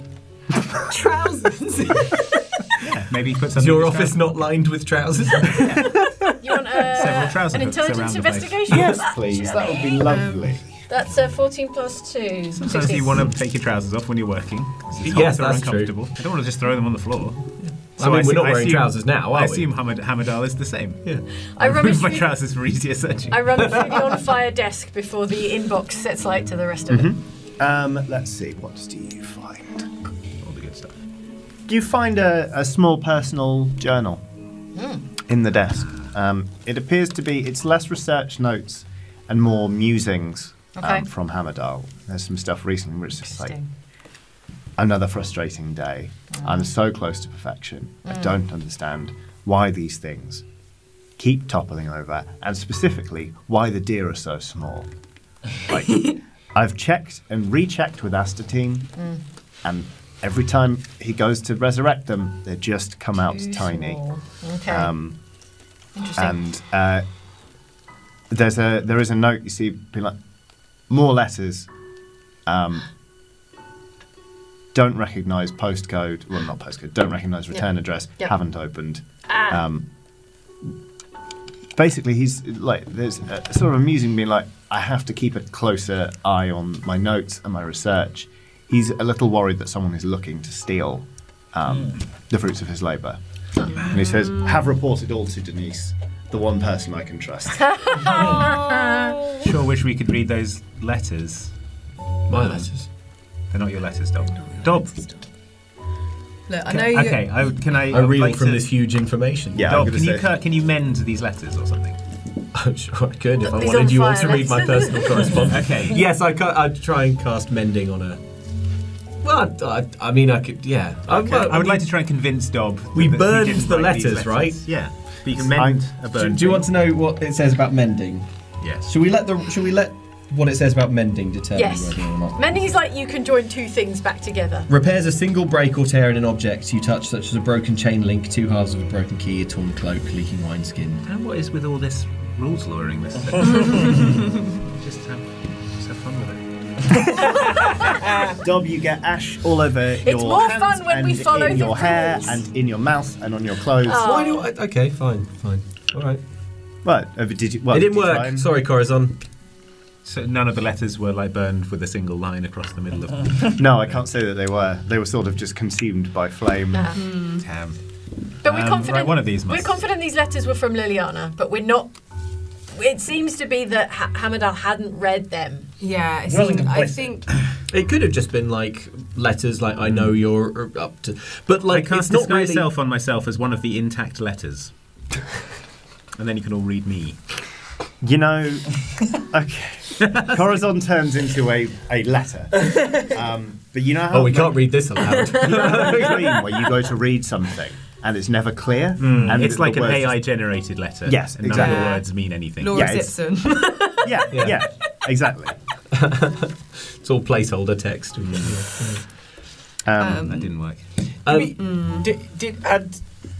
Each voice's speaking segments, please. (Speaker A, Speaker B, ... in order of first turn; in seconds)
Speaker A: 0.8-2.6, 9.7-10.5, 93.8-94.7, 104.3-105.2, 106.5-107.3, 166.9-167.5, 175.8-177.3, 201.5-202.1, 202.6-204.3, 210.0-210.5, 211.5-212.1
Speaker B: 2.8-4.4, 5.6-6.3, 6.9-8.9, 12.5-23.8, 30.4-30.9, 99.4-101.5, 102.3-102.7, 103.5-104.9, 106.7-108.8, 109.6-112.0, 115.4-116.0, 121.4-126.7, 128.6-128.9, 141.0-146.4, 147.5-147.8, 160.0-164.0, 167.4-167.8, 168.4-169.8, 181.7-184.7, 186.2-187.2, 190.0-190.4, 199.0-202.9, 210.2-210.8
Speaker C: 3.5-5.9, 8.7-9.0, 15.0-16.0, 17.6-19.7, 23.6-24.0, 102.3-102.9, 107.9-109.9, 112.5-118.2, 119.2-121.9, 122.9-124.7, 125.3-128.3, 128.8-132.8, 134.7-141.0, 153.9-156.2, 157.7-159.2, 177.7-182.7, 194.1-196.4, 204.3-204.6, 205.9-209.0, 211.2-211.6
Speaker D: 6.4-9.0, 10.9-13.2, 21.6-22.3, 23.3-27.1, 34.7-35.0, 40.7-41.1, 43.2-43.7, 46.3-46.7, 48.0-48.4, 59.0-59.2, 63.3-64.9, 65.9-66.4, 77.5-78.3, 79.3-79.6, 97.6-99.3, 113.4-115.3, 131.5-134.7, 150.0-152.4, 153.8-154.5, 166.7-167.0, 168.4-171.9, 172.7-175.7
Speaker E: 8.7-10.7, 26.9-29.9, 31.7-34.2, 35.2-43.5, 44.8-50.4, 51.2-54.9, 55.6-58.9, 59.6-64.0, 64.6-65.2, 66.2-67.0, 68.3-70.2, 70.9-71.7, 72.5-72.8, 74.7-79.8, 81.8-93.2, 93.7-98.4, 109.5-110.3, 121.1-121.6, 125.5-125.8, 148.3-154.1, 156.8-158.5, 163.6-167.0, 188.0-200.2, 201.0-202.1, 202.7-203.2, 204.0-205.6, 209.8-210.3
Speaker F: 91.7-91.9, 98.0-98.4, 143.3-143.9, 176.3-177.2, 211.3-213.0